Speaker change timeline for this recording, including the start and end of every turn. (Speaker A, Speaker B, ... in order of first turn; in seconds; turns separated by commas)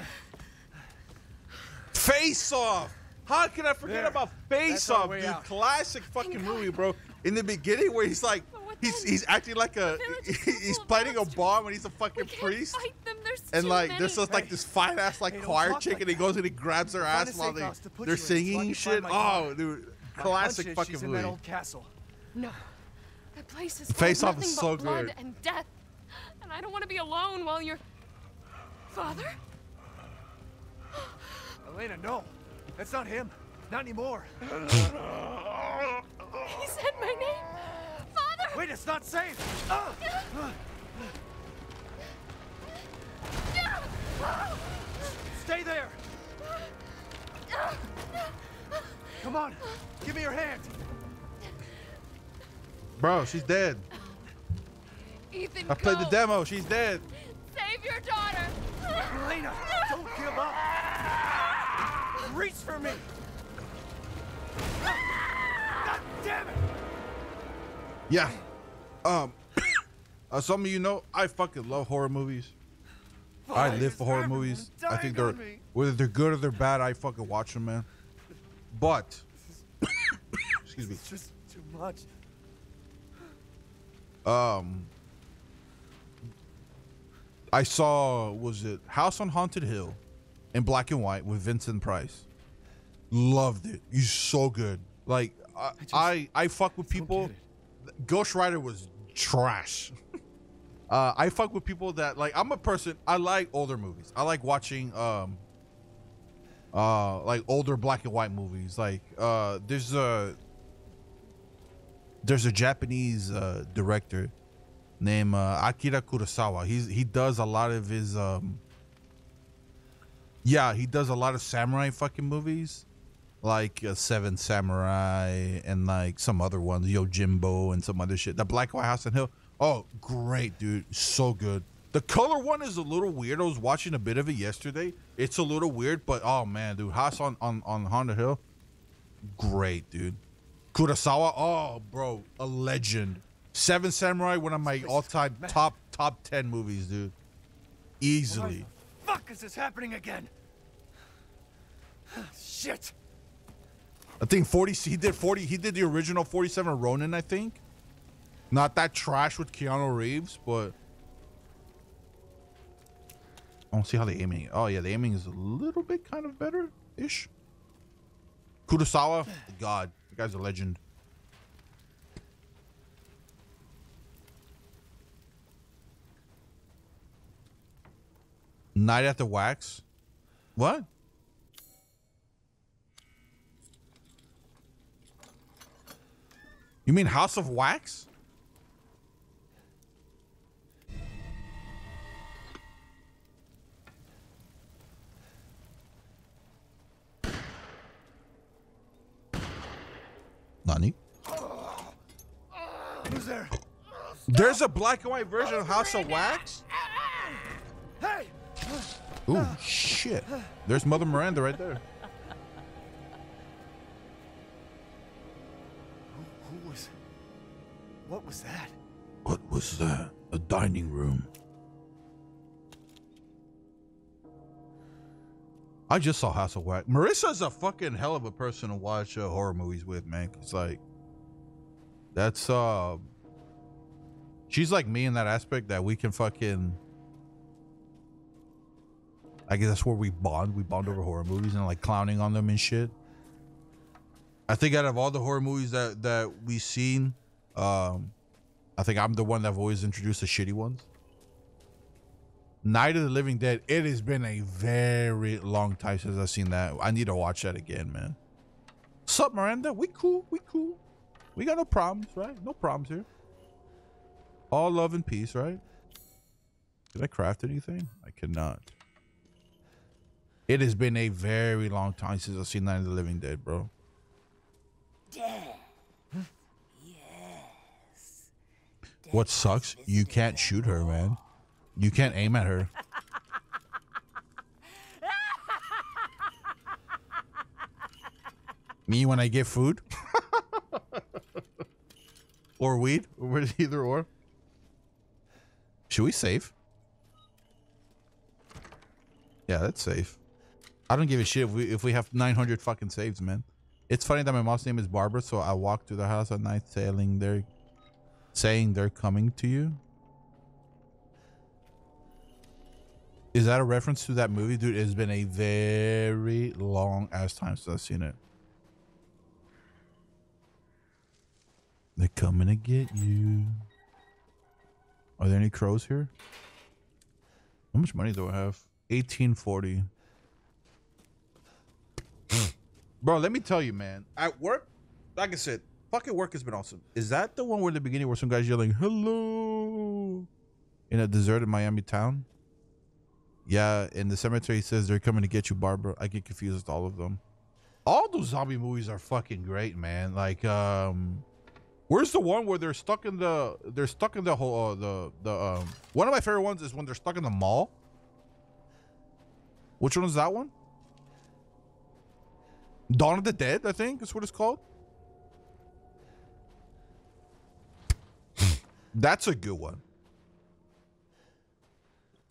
Speaker A: 1.9-12.8, Speaker B: 3.8-5.5, Speaker C: 6.2-6.9, Speaker C: 8.5-9.2, Speaker C: 9.8-14.4, Speaker A: 13.5-21.4, Speaker B: 14.2-14.6, Speaker B: 15.2-16.4, Speaker B: 16.9-19.6, Speaker B: 20.1-21.9, Speaker C: 22.3-22.6, Speaker C: 23.3-27.8, Speaker A: 23.9-25.1, Speaker C: 28.9-29.4, Speaker B: 31.6-34.9, Speaker C: 36.4-38.7, Speaker B: 38.5-40.6, Speaker B: 45.3-46.0, Speaker B: 49.2-50.8, Speaker A: 53.0-53.8, Speaker C: 53.9-54.2, Speaker C: 55.3-56.3, Speaker A: 55.7-57.0, Speaker C: 57.4-59.0, Speaker B: 59.0-60.7, Speaker B: 62.1-63.0, Speaker B: 65.8-66.6, Speaker A: 68.1-68.4, Speaker A: 69.0-69.4, Speaker A: 70.3-72.5, Speaker B: 73.5-75.6, Speaker A: 73.5-77.9, Speaker A: 78.7-79.2, Speaker A: 80.6-81.0, Speaker B: 80.9-82.1, Speaker A: 84.2-84.9, Speaker A: 87.5-90.0, Speaker A: 90.5-92.2, Speaker A: 93.1-97.3, Speaker B: 95.8-96.1, Speaker B: 96.9-97.4, Speaker A: 97.9-99.9, Speaker A: 100.9-105.4, Speaker A: 106.7-110.4, Speaker A: 112.2-114.3, Speaker A: 115.0-118.6, Speaker A: 120.4-122.8, Speaker A: 123.4-138.4, Speaker A: 139.2-140.2, Speaker A: 140.7-147.1, Speaker B: 144.6-145.7, Speaker A: 148.0-148.7, Speaker B: 148.3-150.3, Speaker B: 152.1-152.9, Speaker A: 154.2-157.6, Speaker A: 158.5-160.7, Speaker A: 163.7-167.3, Speaker A: 168.7-170.8, Speaker A: 178.7-179.8, Speaker A: 180.6-180.9, Speaker A: 186.8-188.1, Speaker A: 200.6-201.0, Speaker B: 201.3-201.9, Speaker B: 202.9-203.6, Speaker A: 204.3-206.5, Speaker B: 205.4-207.4, Speaker B: 208.0-209.6, Speaker A: 209.3-211.8, Speaker B: 216.1-216.9, Speaker B: 218.1-218.8, Speaker A: 219.2-221.3, Speaker A: 225.9-230.8, Speaker A: 232.1-233.1, Speaker A: 234.5-236.8, Speaker A: 239.5-242.9, Speaker A: 244.5-248.1, Speaker A: 248.8-250.9, Speaker A: 252.6-258.2, Speaker A: 259.1-260.8, Speaker A: 261.4-263.1, Speaker A: 264.5-265.6, Speaker A: 266.9-268.7, Speaker A: 270.5-273.7, Speaker D: 275.1-275.7, Speaker D: 276.7-278.3, Speaker D: 279.0-281.2, Speaker A: 279.1-281.2, Speaker A: 281.8-282.7, Speaker D: 285.0-286.0, Speaker A: 288.9-291.0, Speaker A: 292.6-294.1, Speaker A: 295.9-296.5, Speaker A: 299.5-300.2, Speaker A: 300.9-307.5, Speaker A: 308.3-309.8, Speaker A: 313.3-318.2, Speaker A: 322.0-323.6, Speaker A: 325.2-326.1, Speaker A: 327.7-329.9, Speaker A: 333.0-340.3, Speaker A: 340.9-342.3, Speaker A: 343.4-347.2, Speaker A: 347.9-351.2, Speaker A: 351.9-357.7, Speaker A: 359.8-360.5, Speaker A: 362.9-364.6, Speaker A: 368.9-369.8